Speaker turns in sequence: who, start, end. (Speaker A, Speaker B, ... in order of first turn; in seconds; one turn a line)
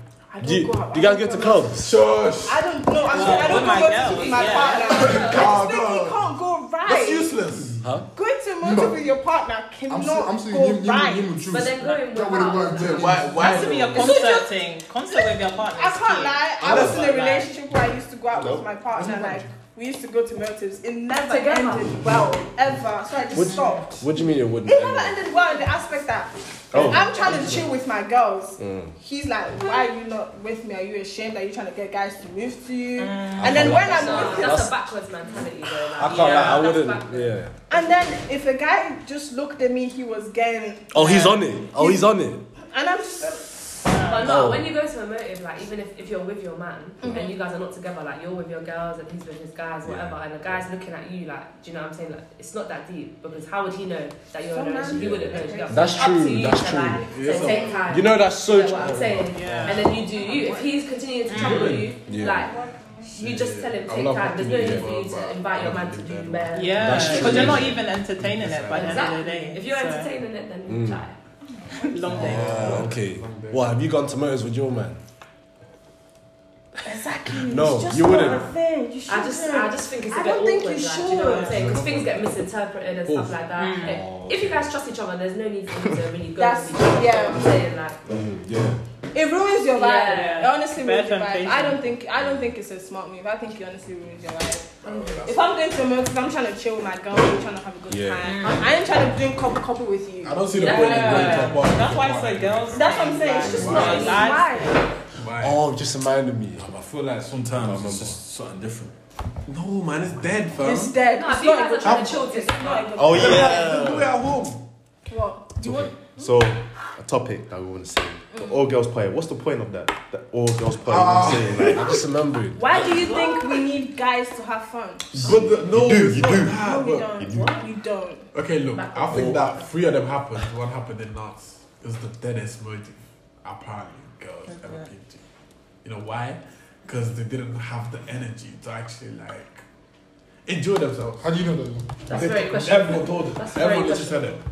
Speaker A: 0.3-1.9
Speaker B: 0.4-2.0
Speaker C: 1.8-2.6
Speaker A: 2.4-7.4
Speaker D: 3.1-5.2
Speaker E: 3.2-5.7
Speaker C: 5.0-6.3
Speaker C: 6.8-7.9
Speaker A: 8.1-11.4
Speaker F: 8.6-9.0
Speaker F: 9.9-13.4
Speaker E: 11.5-14.4
Speaker C: 12.8-14.1
Speaker D: 13.4-17.5
Speaker A: 13.9-14.5
Speaker A: 15.1-24.0
Speaker B: 16.6-17.0
Speaker G: 18.4-18.6
Speaker F: 19.0-19.4
Speaker E: 21.3-22.0
Speaker B: 23.3-25.2
Speaker D: 23.4-23.8
Speaker A: 24.7-34.6
Speaker G: 26.7-27.6
Speaker B: 26.7-27.0
Speaker C: 27.3-27.6
Speaker B: 28.6-28.9
Speaker D: 33.0-34.3
Speaker B: 33.4-34.8
Speaker E: 33.6-37.4
Speaker B: 36.0-37.8
Speaker D: 36.0-36.7
Speaker A: 37.7-43.6
Speaker B: 40.9-42.4
Speaker D: 43.9-44.4
Speaker E: 44.0-62.5
Speaker B: 44.2-44.7
Speaker A: 47.0-47.3
Speaker B: 49.9-50.1
Speaker A: 54.5-57.8
Speaker B: 55.0-57.1
Speaker C: 57.1-57.9
Speaker B: 57.9-59.7
Speaker D: 59.4-60.0
Speaker A: 60.1-60.7
Speaker D: 61.3-61.8
Speaker H: 61.3-61.8
Speaker B: 62.1-62.5
Speaker A: 62.2-63.1
Speaker E: 63.1-67.7
Speaker C: 63.2-66.6
Speaker B: 64.6-64.9
Speaker D: 66.5-70.1
Speaker B: 66.8-67.8
Speaker C: 67.1-68.9
Speaker E: 68.7-71.2
Speaker B: 70.7-71.0
Speaker D: 71.8-72.8
Speaker C: 72.1-73.6
Speaker B: 72.2-75.0
Speaker G: 72.2-73.5
Speaker A: 76.8-81.6
Speaker B: 77.5-78.5
Speaker E: 78.1-78.5
Speaker E: 79.1-88.0
Speaker D: 81.3-81.6
Speaker C: 81.5-82.2
Speaker C: 83.1-83.4
Speaker D: 83.6-84.0
Speaker B: 83.8-84.6
Speaker A: 86.4-87.5
Speaker B: 88.1-88.8
Speaker A: 89.1-101.3
Speaker E: 89.7-90.5
Speaker D: 90.1-91.9
Speaker C: 94.8-95.5
Speaker E: 94.9-95.2
Speaker B: 97.9-98.3
Speaker D: 98.2-98.8
Speaker C: 100.2-104.1
Speaker E: 100.6-101.6
Speaker D: 100.6-104.8
Speaker A: 102.7-104.9
Speaker E: 103.7-104.7
Speaker H: 105.3-105.5
Speaker B: 105.4-106.7
Speaker H: 106.6-108.9
Speaker B: 107.5-108.2
Speaker C: 109.5-111.0
Speaker A: 110.6-113.8
Speaker E: 111.0-113.6
Speaker G: 113.0-114.0
Speaker C: 113.1-114.6
Speaker B: 113.2-114.1
Speaker A: 115.1-116.3
Speaker G: 115.6-122.1
Speaker A: 118.3-118.6
Speaker C: 120.9-122.0
Speaker B: 121.7-122.8
Speaker A: 122.6-125.4
Speaker E: 122.9-123.3
Speaker G: 125.2-126.6
Speaker C: 125.2-127.2
Speaker A: 126.3-128.3
Speaker G: 127.1-127.6
Speaker C: 128.3-135.2
Speaker E: 128.7-129.8
Speaker D: 134.5-134.9
Speaker C: 135.8-139.6
Speaker C: 140.5-141.2
Speaker F: 141.2-142.1
Speaker E: 142.1-144.4
Speaker C: 142.1-144.4